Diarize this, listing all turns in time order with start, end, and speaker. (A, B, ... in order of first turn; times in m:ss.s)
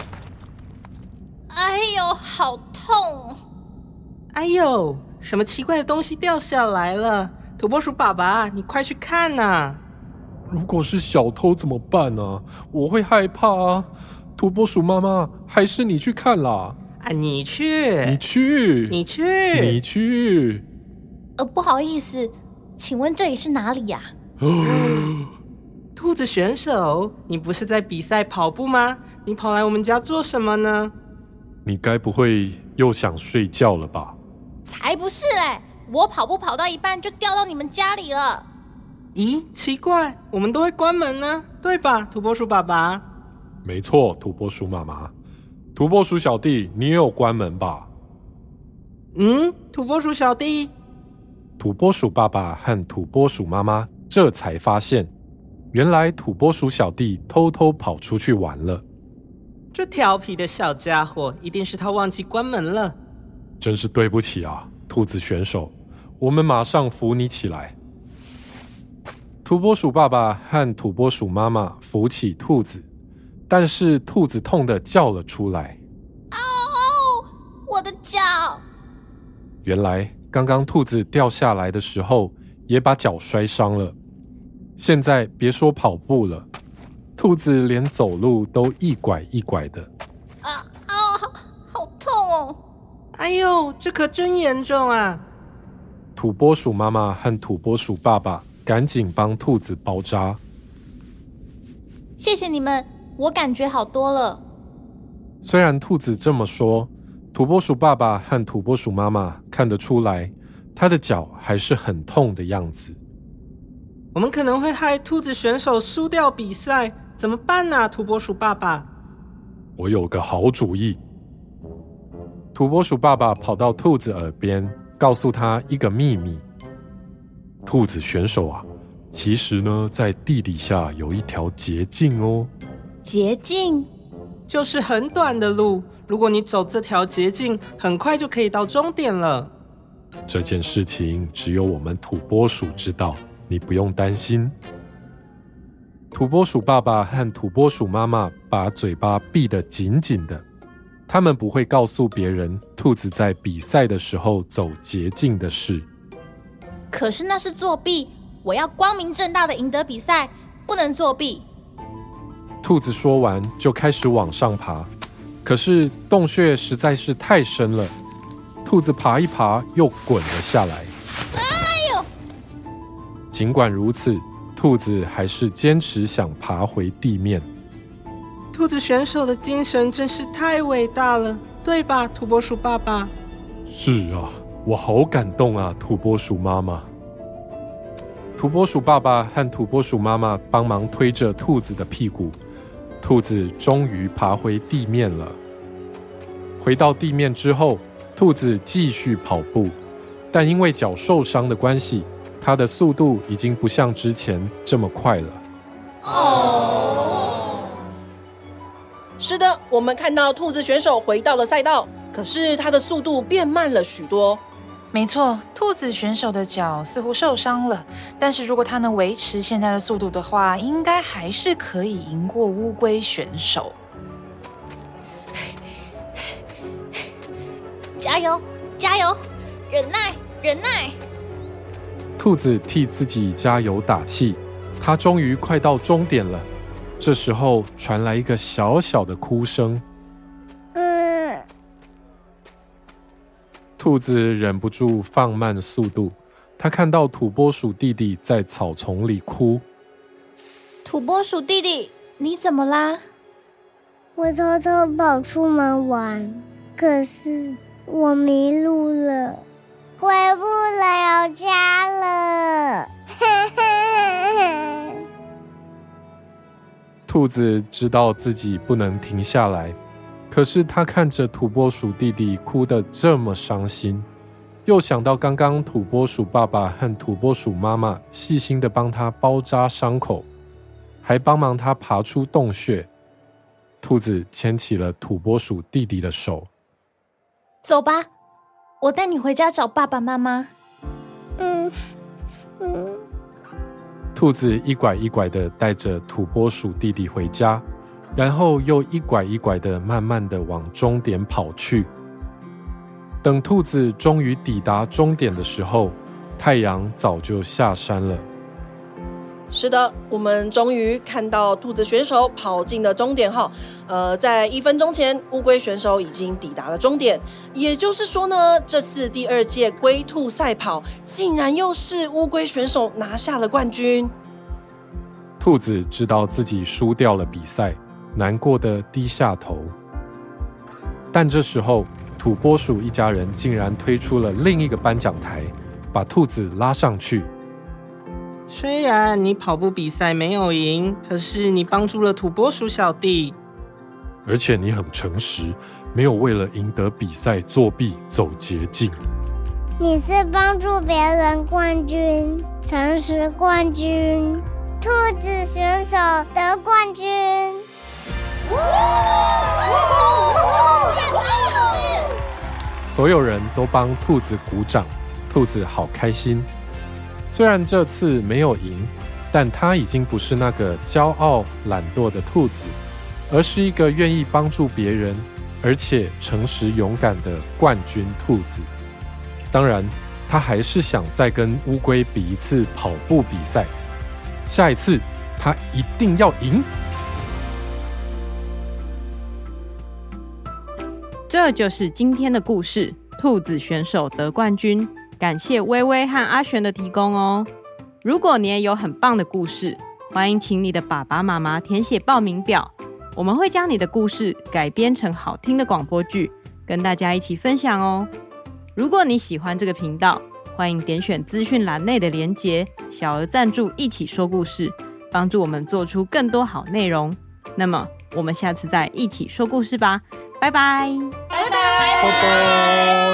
0:01.5-0:03.4 A
0:04.3-0:09.8 B
0:10.5-0:16.8 C
0:17.0-0:18.2 B
0:18.0-0:19.0 C
0:18.9-0:19.8 B
0:19.5-0:20.6 C
0:21.4-0:24.1 A
0:24.5-0:25.2 C
0:24.6-0:25.1 B
0:26.0-0:30.9 B
0:31.6-0:34.2 C
0:34.6-0:38.5 A
0:39.2-0:43.0 B
0:43.6-0:45.1 C
0:45.8-0:47.9 C
0:49.1-0:50.7 B
0:51.6-0:55.1 C
0:55.7-0:58.8 C
0:59.7-1:03.0 B
1:03.6-1:07.8 C
1:09.4-1:12.9 C
1:13.5-1:15.8 C
1:16.3-1:18.6 A
1:19.6-1:24.0 C
1:24.8-1:26.5 C
1:27.2-1:29.9 C
1:30.4-1:32.6 A
1:33.1-1:35.2 B
1:36.2-1:40.4 C
1:42.2-1:44.4 A
1:45.4-1:53.0 C
1:54.1-1:58.9 B
1:59.8-2:01.0 C
2:02.5-2:06.4 C
2:07.6-2:12.5 C
2:13.0-2:13.9 A
2:14.5-2:19.5 B
2:20.3-2:24.6 C
2:26.1-2:30.4 C
2:31.1-2:35.9 C
2:36.9-2:41.4 A
2:42.6-2:44.9 C
2:45.4-2:47.9 C
2:48.6-2:50.9 C
2:51.3-2:52.1 A
2:53.3-2:57.5 C
2:58.5-3:03.1 B
3:03.7-3:06.9 C
3:08.4-3:12.4 C
3:13.0-3:15.4 C
3:16.6-3:19.8 C
3:20.3-3:25.4 C
3:26.2-3:26.9 A
3:29.2-3:34.4 D
3:34.9-3:43.8 E
3:48.0-3:51.0 A
3:52.2-3:56.5 C
3:57.0-3:59.8 C
4:00.8-4:01.4 F
4:03.8-4:09.6 C
4:10.8-4:13.0 A
4:14.2-4:19.4 F
4:20.0-4:22.9 F
4:23.6-4:24.0 F
4:27.1-4:29.8 C
4:30.3-4:34.1 C
4:34.7-4:40.3 C
4:41.0-4:42.9 C
4:43.8-4:46.5 C
4:47.6-4:48.1 A
4:48.8-4:50.5 A
4:51.4-4:51.7 F
4:54.2-4:57.6 C
4:58.2-5:01.9 C
5:03.2-5:08.3 C
5:09.5-5:24.1 D
5:25.4-5:29.7 C
5:31.1-5:37.3 C
5:38.5-5:43.4 B
5:44.2-5:49.0 C
5:49.8-5:57.6 F
6:02.9-6:06.5 C
6:07.3-6:12.8 C
6:13.3-6:18.7 C
6:19.5-6:23.7 C
6:24.5-6:26.7 C
6:31.3-6:37.5 G
6:38.0-6:48.1 G
6:48.8-7:01.2 G
7:02.0-7:02.4 C